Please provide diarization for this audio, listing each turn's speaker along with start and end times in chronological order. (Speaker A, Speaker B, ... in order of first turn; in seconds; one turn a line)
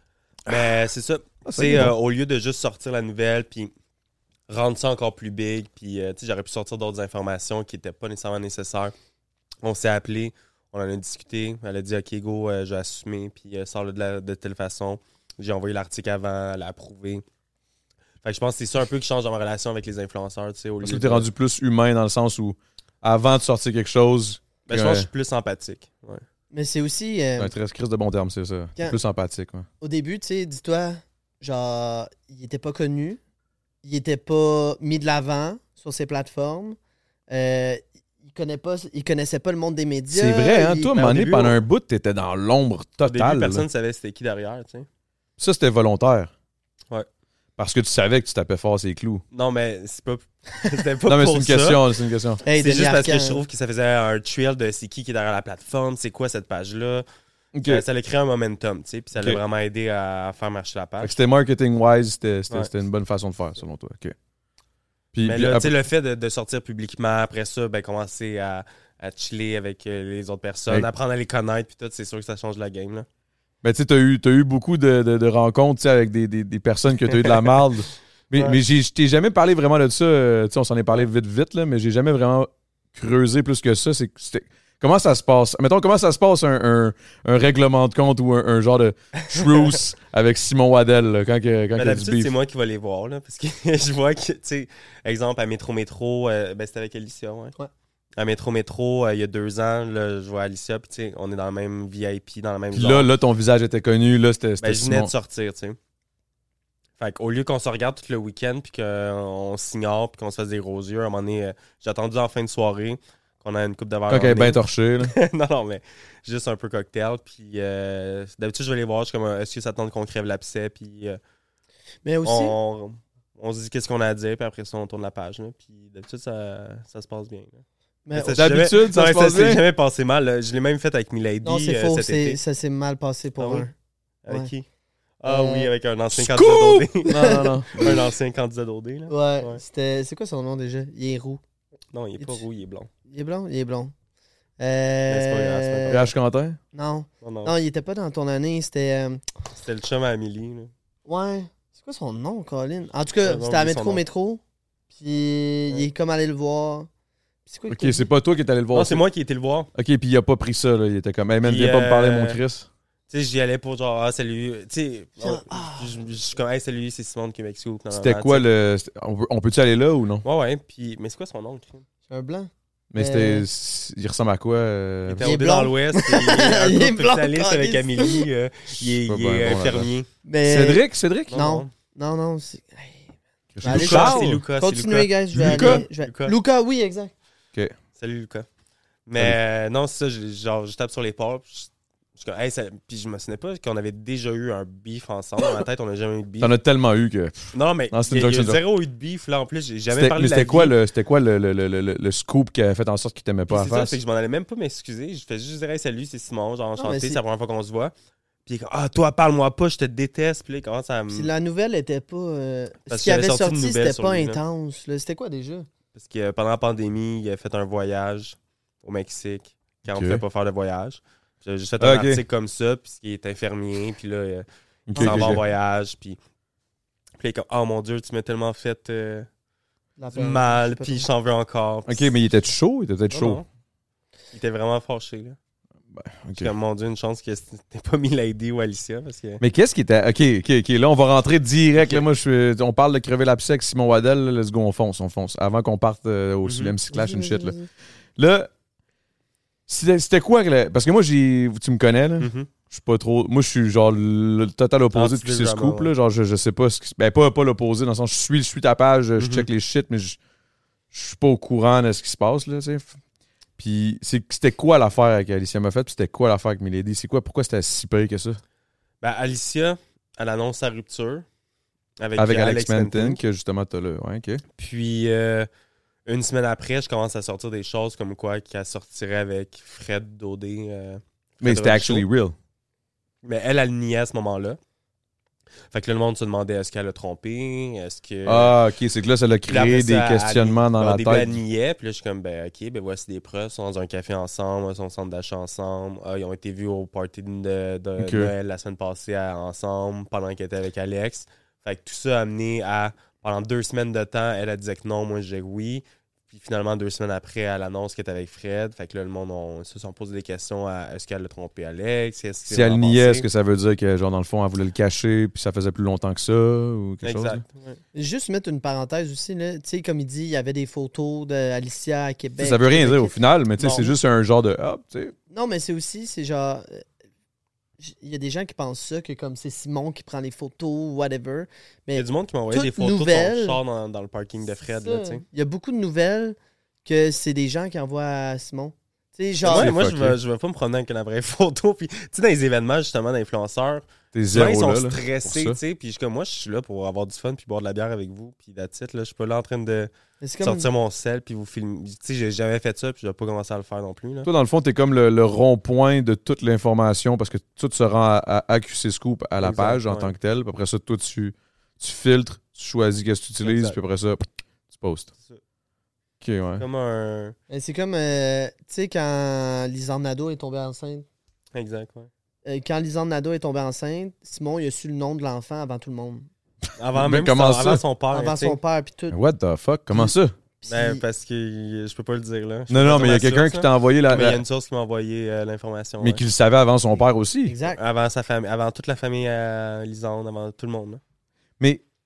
Speaker A: 0.5-3.7
Speaker B: 1.4-2.0
Speaker A: 4.5-8.9
Speaker A: 9.6-17.2
Speaker A: 18.2-21.3
Speaker B: 20.8-25.1
Speaker A: 24.7-26.2
Speaker C: 26.5-27.6
Speaker B: 27.4-29.7
Speaker C: 29.8-33.2
Speaker C: 33.8-36.8
Speaker C: 37.3-41.2
Speaker B: 40.1-43.6
Speaker A: 41.0-41.5
Speaker A: 43.1-44.9
Speaker B: 45.4-46.3
Speaker B: 47.6-49.2
Speaker A: 49.3-51.8
Speaker B: 51.1-52.4
Speaker C: 52.4-53.4
Speaker A: 52.5-57.1
Speaker B: 57.5-57.9
Speaker A: 57.6-61.2
Speaker B: 61.0-64.2
Speaker B: 65.1-65.7
Speaker A: 65.2-73.1
Speaker B: 73.6-92.3
Speaker A: 78.3-78.6
Speaker A: 91.8-97.5
Speaker A: 98.2-103.1
Speaker B: 102.7-105.1
Speaker A: 104.6-105.8
Speaker A: 107.0-121.2
Speaker B: 114.1-115.2
Speaker C: 122.0-122.5
Speaker A: 122.2-127.6
Speaker C: 128.1-128.4
Speaker A: 128.1-132.4
Speaker B: 128.3-129.6
Speaker C: 131.4-133.7
Speaker A: 133.4-133.7
Speaker A: 134.2-134.7
Speaker A: 135.2-139.6
Speaker C: 135.3-135.7
Speaker B: 136.1-137.9
Speaker C: 137.1-138.0
Speaker C: 139.1-141.4
Speaker A: 141.9-142.9
Speaker C: 143.1-143.9
Speaker C: 144.6-146.1
Speaker A: 145.1-146.0
Speaker B: 145.9-146.6
Speaker C: 146.7-149.2
Speaker A: 147.2-147.5
Speaker A: 149.5-150.7
Speaker C: 151.1-154.4
Speaker A: 153.2-154.0
Speaker C: 154.9-156.9
Speaker C: 157.5-158.0
Speaker B: 157.7-159.0
Speaker A: 158.7-159.7
Speaker B: 159.8-162.7
Speaker A: 161.4-162.4
Speaker A: 163.1-168.5
Speaker C: 165.2-166.0
Speaker B: 167.9-170.2
Speaker A: 170.2-171.8
Speaker C: 172.1-173.5
Speaker B: 172.9-175.3
Speaker A: 175.1-180.1
Speaker C: 175.2-178.3
Speaker B: 178.8-179.9
Speaker C: 180.3-187.1
Speaker B: 180.4-181.4
Speaker A: 181.3-181.7
Speaker B: 183.5-184.4
Speaker A: 183.7-186.3
Speaker B: 185.3-185.8
Speaker A: 188.0-188.5
Speaker A: 189.1-196.5
Speaker B: 196.4-198.6
Speaker A: 197.5-200.8
Speaker B: 199.9-203.9
Speaker A: 203.5-207.9
Speaker C: 206.8-207.2
Speaker A: 208.5-211.3
Speaker C: 211.1-215.7
Speaker A: 212.9-214.4
Speaker A: 215.9-226.2
Speaker B: 219.9-220.2
Speaker B: 221.8-222.2
Speaker B: 224.9-225.4
Speaker C: 224.9-225.4
Speaker A: 227.2-229.3
Speaker C: 230.0-231.1
Speaker A: 230.2-232.1
Speaker B: 231.9-233.4
Speaker A: 233.1-233.5
Speaker A: 234.3-235.4
Speaker B: 235.9-236.5
Speaker A: 236.4-239.4
Speaker B: 239.4-247.6
Speaker A: 241.8-242.0
Speaker A: 246.4-246.7
Speaker C: 246.9-247.7
Speaker B: 248.2-248.5
Speaker B: 249.7-260.2
Speaker A: 252.2-252.5
Speaker A: 254.9-255.9
Speaker A: 259.2-259.5
Speaker B: 260.9-263.0
Speaker B: 263.6-268.4
Speaker A: 269.0-271.2
Speaker A: 272.0-273.2
Speaker B: 272.2-274.4
Speaker A: 274.6-275.5
Speaker A: 276.1-282.1
Speaker B: 281.4-282.4
Speaker A: 283.2-284.6
Speaker A: 285.7-288.6
Speaker B: 288.3-291.4
Speaker A: 289.5-313.3
Speaker B: 298.0-298.3
Speaker B: 312.5-317.4
Speaker A: 317.0-317.8
Speaker C: 317.9-323.2
Speaker B: 322.4-325.1
Speaker A: 323.6-323.9
Speaker C: 325.3-326.8
Speaker C: 327.8-333.6
Speaker A: 332.0-335.2
Speaker C: 334.7-339.7
Speaker A: 339.4-349.9
Speaker B: 339.5-340.2
Speaker B: 344.1-345.6
Speaker C: 350.2-350.7
Speaker A: 350.4-354.3
Speaker B: 354.2-365.1
Speaker A: 359.4-360.1
Speaker A: 363.4-363.8
Speaker B: 366.2-366.6
Speaker A: 366.6-367.4
Speaker C: 367.5-371.1
Speaker A: 371.5-372.1
Speaker C: 372.4-376.3
Speaker A: 376.8-378.6
Speaker B: 376.9-377.8
Speaker C: 378.1-379.2
Speaker B: 379.1-380.3
Speaker C: 379.9-381.0
Speaker A: 380.7-386.2
Speaker B: 382.7-384.4
Speaker B: 386.0-387.6
Speaker C: 387.5-387.8
Speaker A: 387.7-391.0